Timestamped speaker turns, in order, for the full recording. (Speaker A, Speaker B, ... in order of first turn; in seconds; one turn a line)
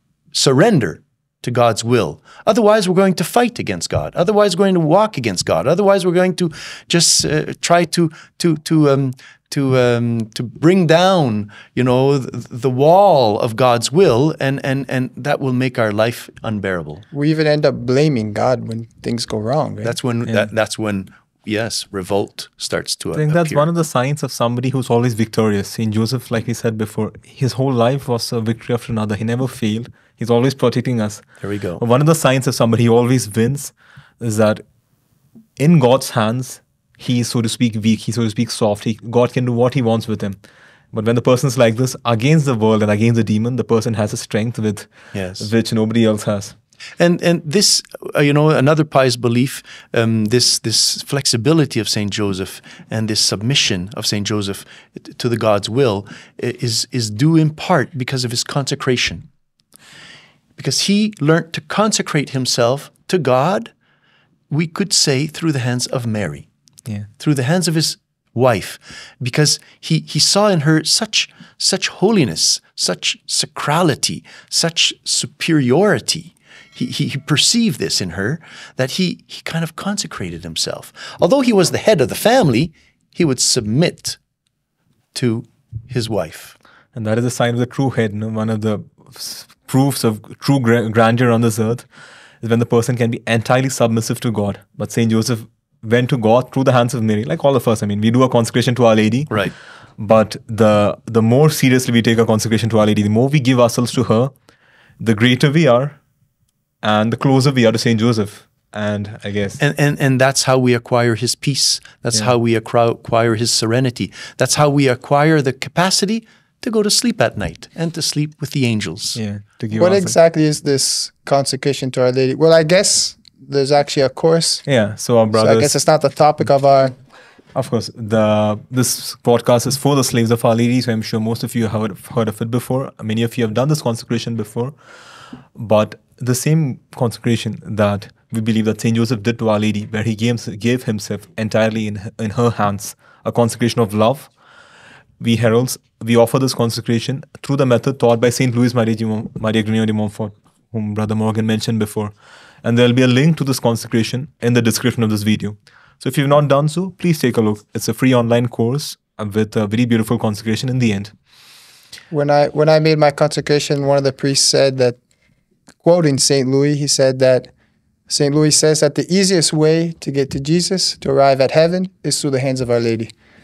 Speaker A: 0.3-17.0
Speaker B: 17.1-19.9
Speaker A: 19.8-23.7
Speaker C: 23.1-31.2
Speaker A: 31.4-31.8
Speaker C: 31.8-34.6
Speaker C: 35.6-40.4
Speaker C: 40.9-46.5
Speaker A: 45.1-45.5
Speaker A: 47.0-59.2
Speaker A: 60.6-63.7
Speaker A: 64.5-66.5
Speaker A: 67.2-84.2
Speaker A: 85.1-86.5
Speaker C: 86.9-91.8
Speaker C: 92.4-99.3
Speaker C: 100.0-104.3
Speaker C: 105.0-106.0
Speaker C: 106.8-109.6
Speaker A: 109.6-119.2
Speaker C: 119.2-120.2
Speaker B: 119.7-124.6
Speaker C: 124.7-125.8
Speaker B: 125.3-126.9
Speaker C: 127.5-134.7
Speaker C: 135.5-144.3
Speaker C: 145.2-161.1
Speaker B: 162.1-165.0
Speaker B: 165.8-167.5
Speaker B: 168.1-173.1